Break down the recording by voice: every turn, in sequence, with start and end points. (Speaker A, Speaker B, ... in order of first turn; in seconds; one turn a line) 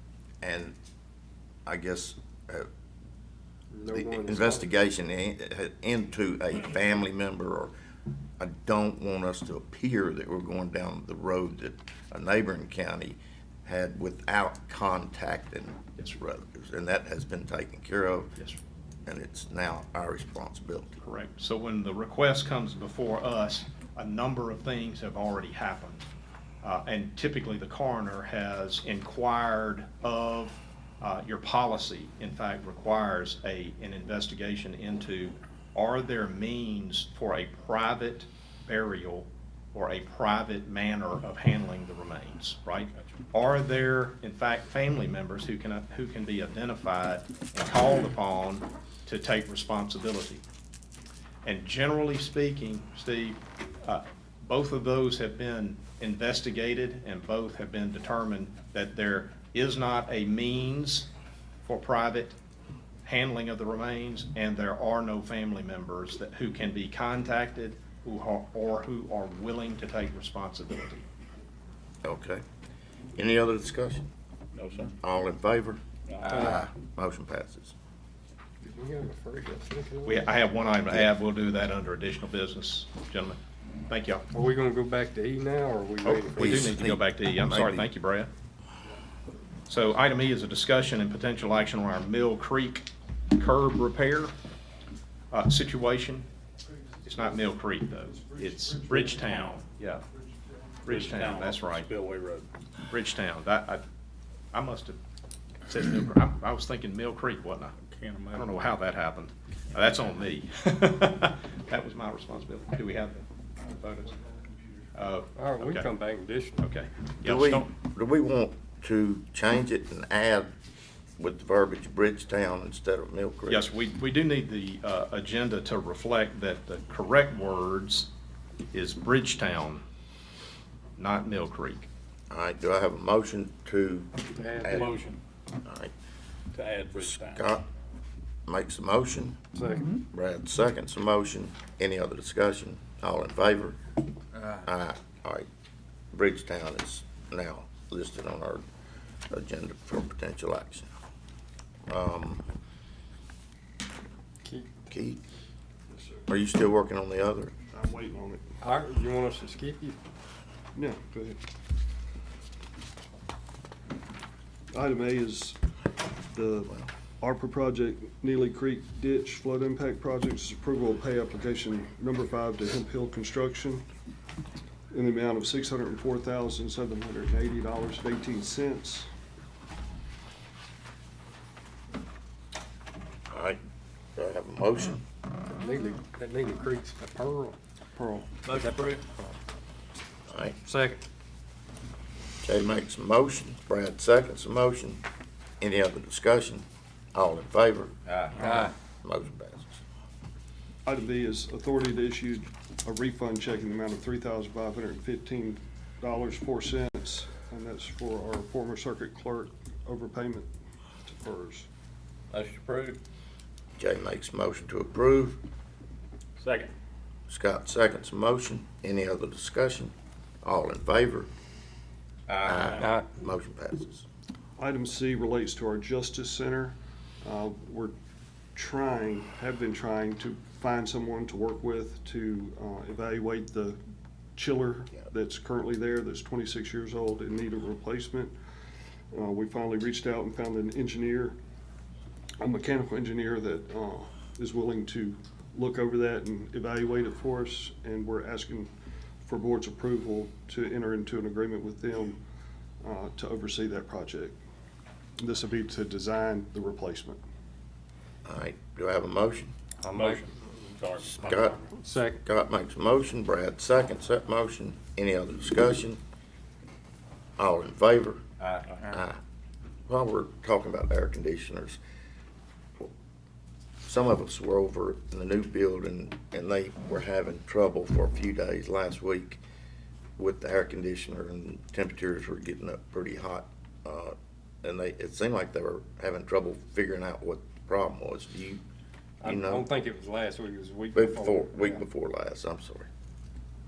Speaker A: 0.4-0.7
Speaker A: 1.6-2.7
Speaker B: 3.7-4.8
Speaker A: 3.9-7.7
Speaker A: 8.4-18.3
Speaker A: 19.1-21.0
Speaker C: 21.0-26.0
Speaker C: 26.6-50.4
Speaker C: 51.4-61.1
Speaker C: 61.6-62.4
Speaker C: 63.0-71.0
Speaker A: 72.0-72.4
Speaker A: 73.2-74.1
Speaker D: 74.5-74.9
Speaker A: 75.0-77.7
Speaker D: 76.1-76.4
Speaker B: 76.2-76.6
Speaker B: 78.6-80.3
Speaker C: 80.0-84.2
Speaker B: 84.3-86.8
Speaker C: 86.0-88.3
Speaker A: 86.3-87.8
Speaker C: 89.7-94.3
Speaker C: 95.3-96.3
Speaker C: 97.0-100.0
Speaker E: 98.1-99.5
Speaker E: 100.1-100.8
Speaker C: 100.8-101.9
Speaker D: 100.8-102.5
Speaker C: 102.9-103.8
Speaker C: 104.5-105.0
Speaker C: 105.7-107.7
Speaker D: 107.9-108.5
Speaker C: 108.3-114.2
Speaker C: 114.9-115.9
Speaker B: 115.3-116.7
Speaker C: 116.6-117.7
Speaker A: 117.2-120.5
Speaker A: 121.2-123.7
Speaker C: 123.5-128.1
Speaker C: 128.7-129.8
Speaker C: 131.0-131.9
Speaker A: 132.3-134.9
Speaker B: 134.4-134.8
Speaker D: 134.7-135.2
Speaker A: 135.6-135.9
Speaker D: 136.5-137.5
Speaker A: 136.9-137.6
Speaker A: 138.5-139.4
Speaker B: 139.5-140.0
Speaker A: 140.1-143.8
Speaker A: 144.6-145.5
Speaker A: 146.1-148.6
Speaker A: 149.3-150.9
Speaker A: 151.9-152.4
Speaker B: 154.4-154.7
Speaker A: 154.9-155.2
Speaker E: 155.9-156.2
Speaker A: 156.3-157.5
Speaker E: 157.7-158.4
Speaker B: 158.6-160.0
Speaker E: 160.7-161.4
Speaker E: 164.7-165.6
Speaker E: 166.3-173.8
Speaker E: 174.9-179.1
Speaker A: 183.3-183.6
Speaker A: 184.2-185.0
Speaker B: 185.5-187.6
Speaker E: 187.9-188.3
Speaker D: 188.4-189.0
Speaker B: 188.5-189.1
Speaker A: 190.3-190.5
Speaker B: 190.6-191.0
Speaker A: 192.4-195.0
Speaker A: 195.6-197.9
Speaker D: 198.1-198.6
Speaker A: 198.6-199.8
Speaker E: 200.8-210.5
Speaker E: 211.0-211.7
Speaker D: 212.3-213.0
Speaker A: 213.8-215.4
Speaker D: 216.4-216.7
Speaker A: 217.3-221.3
Speaker D: 222.3-222.8
Speaker A: 222.4-224.0
Speaker B: 222.8-223.1
Speaker E: 224.6-227.9
Speaker E: 228.5-233.8
Speaker E: 234.3-238.3
Speaker E: 239.1-241.3
Speaker E: 242.4-248.7
Speaker E: 249.2-252.2
Speaker E: 252.8-254.4
Speaker E: 255.2-257.2
Speaker A: 258.2-259.5
Speaker B: 259.8-260.2
Speaker D: 259.9-261.5
Speaker A: 261.0-261.6
Speaker B: 261.7-262.2
Speaker A: 262.2-266.0
Speaker A: 267.4-268.2
Speaker D: 268.4-268.9
Speaker A: 268.9-269.2
Speaker A: 269.9-271.8
Speaker A: 273.8-279.4
Speaker A: 280.2-288.6
Speaker B: 289.2-291.8
Speaker A: 289.2-289.7
Speaker A: 290.9-292.9